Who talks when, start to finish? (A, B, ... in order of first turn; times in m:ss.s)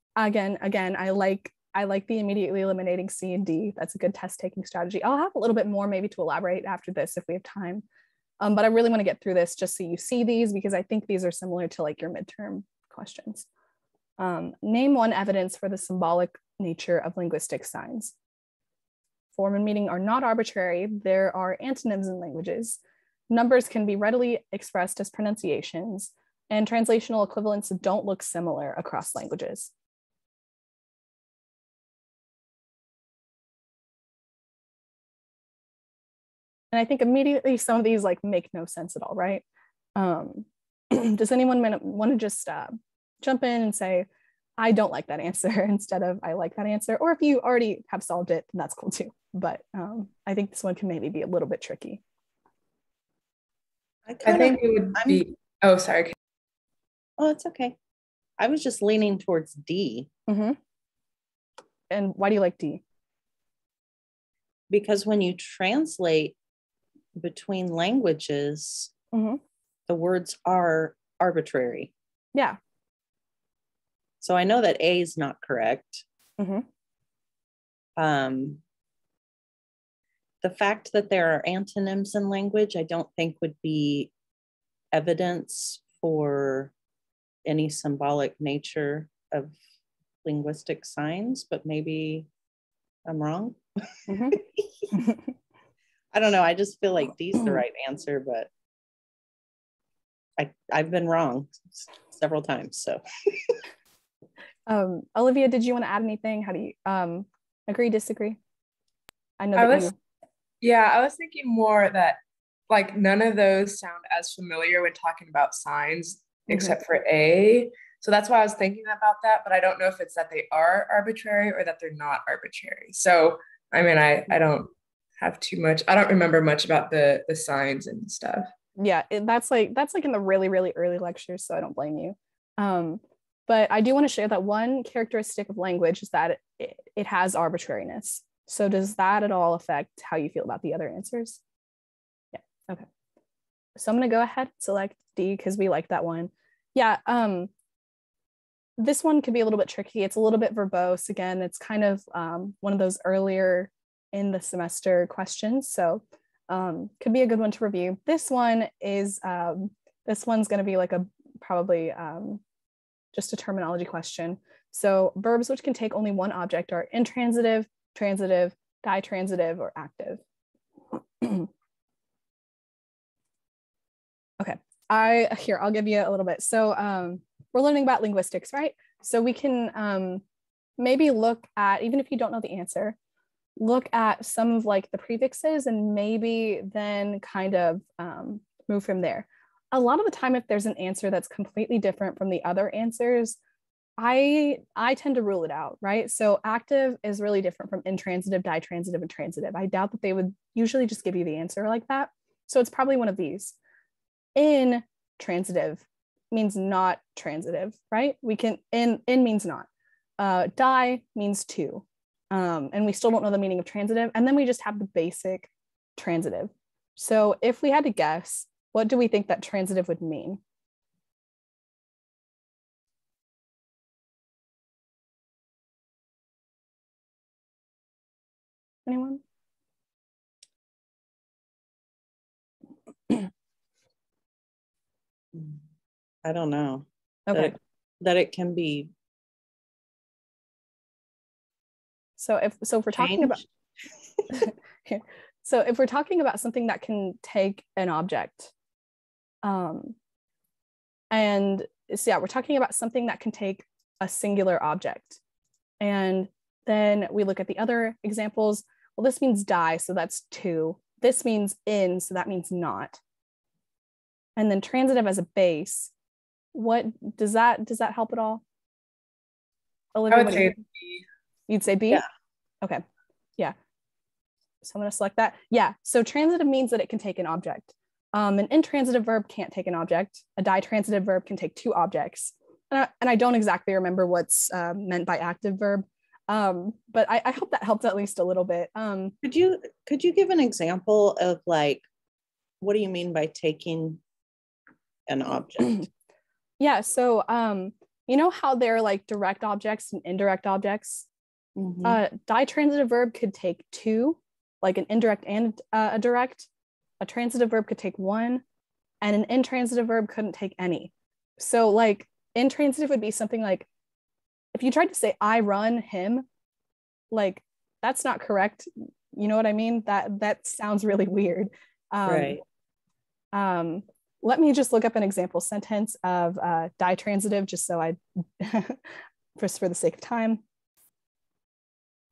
0:00.2-0:07.8 A
0:08.4-0:13.4 A
0:14.2-0:18.1 A
0:19.3-0:22.8 A
0:23.3-0:29.7 A
0:36.7-0:39.4 A
0:40.0-0:44.1 A
0:44.6-0:52.0 A
0:54.0-0:55.2 B
0:54.2-0:56.1 C
0:57.2-0:57.8 B
0:58.4-1:00.1 B
1:00.3-1:00.6 A
1:01.9-1:02.8 A
1:04.7-1:06.4 B
1:07.2-1:08.9 B
1:09.1-1:09.4 A
1:09.9-1:11.9 B
1:14.2-1:16.0 B
1:16.4-1:16.6 A
1:18.0-1:18.6 B
1:20.4-1:24.1 B
1:24.9-1:26.7 B
1:27.4-1:29.5 B
1:30.2-1:32.3 B
1:33.0-1:33.6 B
1:34.1-1:34.4 A
1:34.3-1:34.9 B
1:36.1-1:38.5 B
1:40.4-1:43.6 B
1:44.7-1:48.4 A
1:49.4-1:49.9 A
1:49.6-1:49.9 C
1:50.6-2:08.5 C
1:56.5-1:56.8 A
2:08.8-2:21.4 A
2:22.3-2:22.8 A
2:23.8-2:27.5 A
2:28.8-2:42.4 A
2:43.1-2:50.2 A
2:51.2-2:51.5 A
2:54.4-3:00.2 A
3:00.8-3:03.0 A
3:03.6-3:13.4 A
3:14.0-3:23.5 A
3:24.4-3:29.7 A
3:30.2-3:40.4 A
3:48.8-3:49.2 A
3:55.3-3:55.6 B
3:56.2-3:58.9 B
3:57.3-3:57.6 A
4:02.2-4:03.4 A
4:02.9-4:03.4 B
4:04.4-4:08.5 A
4:09.4-4:09.9 A
4:11.1-4:15.2 A
4:15.8-4:23.0 A
4:24.4-4:25.9 A
4:26.5-4:28.4 A
4:29.9-4:30.6 A
4:30.1-4:31.0 C
4:31.5-4:32.0 A
4:34.6-4:49.1 A
4:49.2-4:51.8 B
4:52.6-4:54.0 B
4:55.1-4:55.9 B
4:56.6-5:01.1 A
5:01.6-5:02.0 B
5:01.8-5:06.5 A
5:07.0-5:08.4 A
5:09.0-5:13.7 A
5:14.5-5:16.2 A
5:17.1-5:22.4 A
5:22.0-5:22.4 B
5:23.3-5:28.8 A
5:29.4-5:30.4 A